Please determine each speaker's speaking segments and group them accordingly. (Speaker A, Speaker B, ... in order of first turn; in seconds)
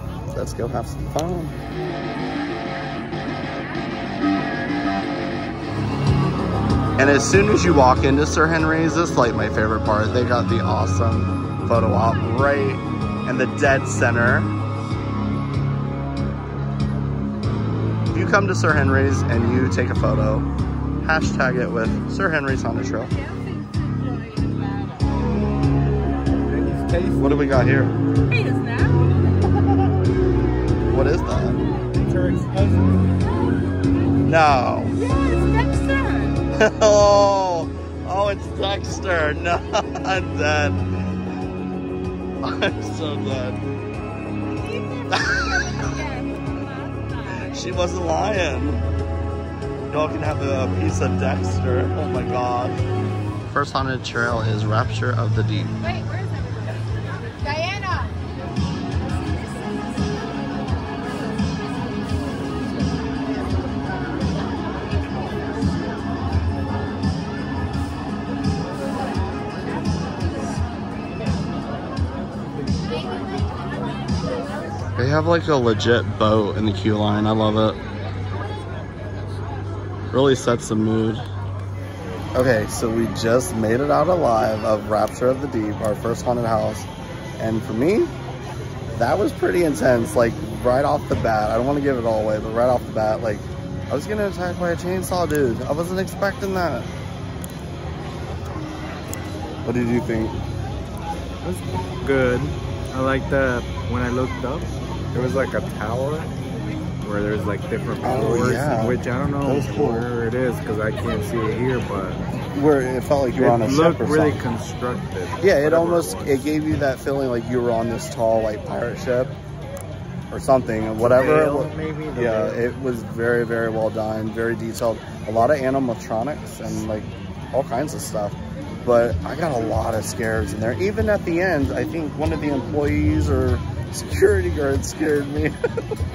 Speaker A: 0.3-1.6, 7.0-14.5, 18.1-20.5, 21.0-23.1, 27.2-27.9, 30.9-31.6, 34.2-35.0, 36.5-40.9, 42.4-43.6, 45.1-46.0, 47.3-48.8, 49.9-52.8, 53.5-55.8, 75.0-77.8, 80.1-81.2, 82.3-88.1, 88.9-96.9, 99.6-100.4, 108.0-110.1, 112.5-114.4, 115.4-119.3, 120.3-135.5
Speaker B: 23.3-25.2, 28.3-29.1, 35.0-36.4, 44.6-47.2, 56.0-56.8, 57.4-58.1
Speaker C: 26.3-27.4, 31.9-33.1, 101.4-112.2, 113.3-116.5, 121.0-122.7